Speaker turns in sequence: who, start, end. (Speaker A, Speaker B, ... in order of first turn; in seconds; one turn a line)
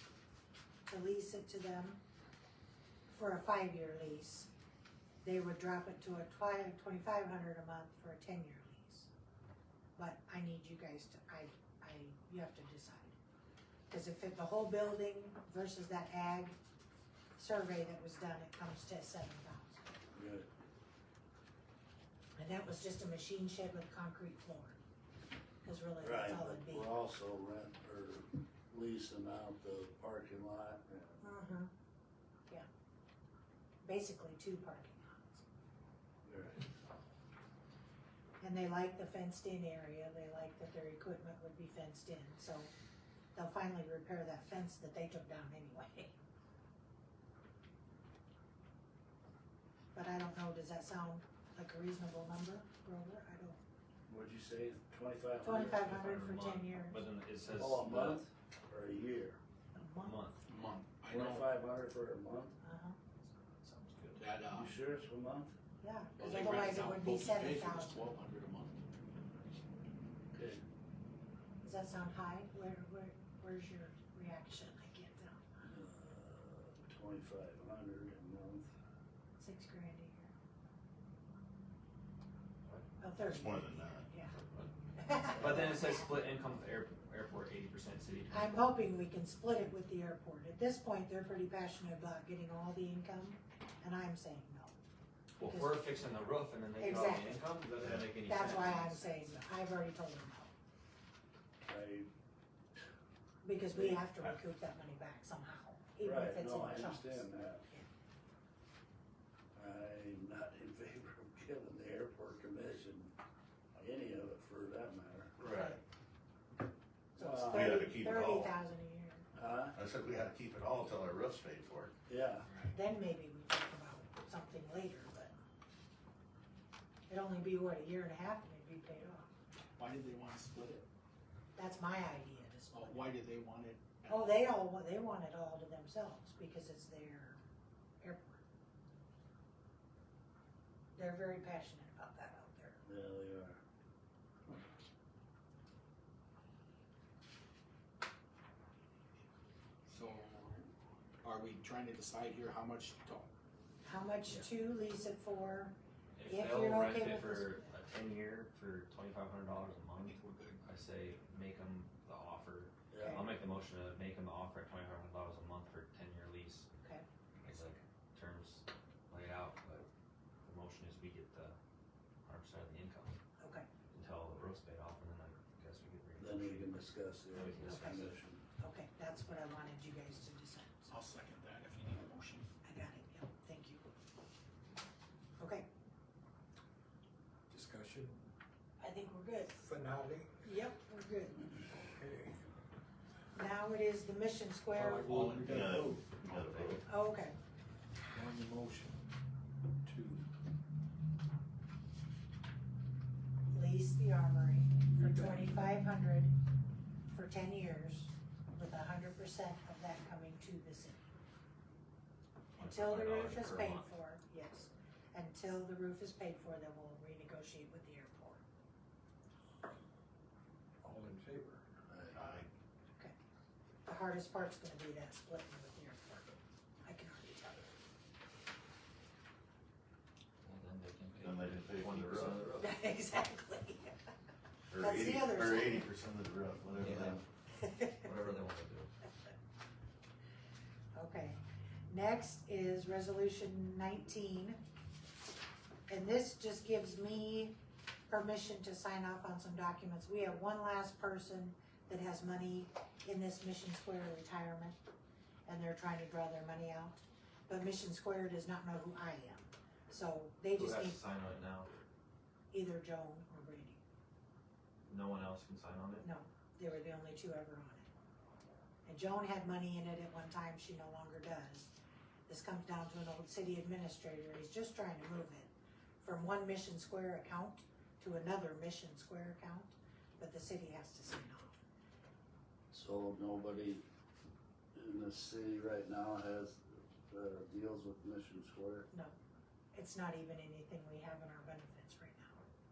Speaker A: 0.9-2.0
Speaker A: 3.1-4.5
Speaker A: 5.2-9.1
Speaker A: 10.0-13.2
Speaker A: 13.9-16.6
Speaker A: 17.4-19.9
Speaker B: 20.1-20.5
Speaker A: 22.4-24.8
Speaker A: 25.6-26.9
Speaker B: 26.0-31.3
Speaker A: 31.2-31.7
Speaker A: 33.8-35.4
Speaker B: 36.2-36.6
Speaker A: 38.4-42.7
Speaker A: 43.4-46.2
Speaker A: 49.9-53.6
Speaker B: 54.1-56.0
Speaker A: 55.4-57.0
Speaker C: 55.6-58.2
Speaker B: 57.5-59.4
Speaker A: 59.7-60.2
Speaker C: 60.0-60.5
Speaker D: 60.5-61.5
Speaker B: 61.1-62.6
Speaker A: 62.6-63.0
Speaker C: 63.3-64.2
Speaker D: 64.2-64.7
Speaker B: 64.5-65.5
Speaker A: 65.8-68.0
Speaker D: 66.2-68.8
Speaker C: 66.2-66.9
Speaker B: 70.3-70.6
Speaker A: 71.6-75.6
Speaker B: 75.6-78.7
Speaker A: 79.4-80.3
Speaker A: 83.0-84.3
Speaker E: 83.2-84.1
Speaker C: 84.3-88.6
Speaker A: 85.0-86.1
Speaker A: 88.3-94.7
Speaker C: 95.4-99.3
Speaker A: 95.4-96.0
Speaker A: 96.8-97.4
Speaker E: 97.8-98.1
Speaker A: 98.2-100.5
Speaker B: 101.7-102.1
Speaker A: 103.4-107.9
Speaker B: 103.8-104.0
Speaker B: 106.0-107.7
Speaker B: 109.5-113.2
Speaker B: 113.8-115.3
Speaker E: 115.4-115.8
Speaker A: 115.5-115.8
Speaker A: 117.2-119.2
Speaker B: 117.2-117.9
Speaker E: 117.5-118.5
Speaker B: 119.3-119.8
Speaker E: 119.7-121.9
Speaker B: 122.1-122.5
Speaker A: 122.7-125.3
Speaker A: 127.1-129.3
Speaker D: 129.8-130.9
Speaker A: 131.6-133.1
Speaker D: 132.7-134.4
Speaker A: 134.1-137.4
Speaker A: 138.0-138.4
Speaker A: 141.0-142.8
Speaker B: 142.8-143.6
Speaker D: 149.9-150.7
Speaker D: 151.2-153.3
Speaker A: 153.8-157.6
Speaker C: 156.2-166.7
Speaker D: 160.0-160.6
Speaker B: 162.9-163.3
Speaker C: 167.4-169.9
Speaker C: 170.4-171.6
Speaker C: 172.2-173.2
Speaker A: 173.4-173.7
Speaker C: 173.9-178.2
Speaker B: 176.2-178.4
Speaker A: 177.7-178.0
Speaker A: 178.6-180.9
Speaker D: 180.9-182.5
Speaker A: 182.6-183.9
Speaker A: 185.4-185.7
Speaker F: 187.5-188.3
Speaker A: 188.8-189.5
Speaker F: 189.5-190.4
Speaker A: 190.4-191.5
Speaker F: 191.9-192.4
Speaker A: 193.3-195.2
Speaker F: 194.7-196.1
Speaker D: 195.1-195.5
Speaker E: 195.4-196.9
Speaker C: 196.2-196.8
Speaker A: 196.9-197.4
Speaker F: 198.1-199.0
Speaker F: 199.9-200.3
Speaker A: 203.5-206.3
Speaker F: 204.8-205.7
Speaker A: 207.1-211.1
Speaker C: 212.6-213.9
Speaker A: 212.6-218.4
Speaker F: 220.8-221.6
Speaker B: 221.9-222.2
Speaker E: 222.1-222.5
Speaker A: 223.8-227.7
Speaker C: 230.4-232.7
Speaker E: 231.2-232.6
Speaker A: 232.6-234.0
Speaker E: 234.7-237.2
Speaker A: 234.8-235.9
Speaker C: 236.7-237.2
Speaker A: 237.6-237.9
Speaker C: 237.8-238.9
Speaker A: 240.9-244.6
Speaker A: 245.9-247.6
Speaker A: 248.1-254.8
Speaker A: 255.5-261.0
Speaker C: 260.5-261.7
Speaker A: 262.5-263.8
Speaker C: 264.9-266.1
Speaker A: 266.0-267.9
Speaker A: 268.9-271.7
Speaker A: 272.3-281.6
Speaker B: 282.7-283.8
Speaker B: 284.8-288.9
Speaker A: 289.7-292.4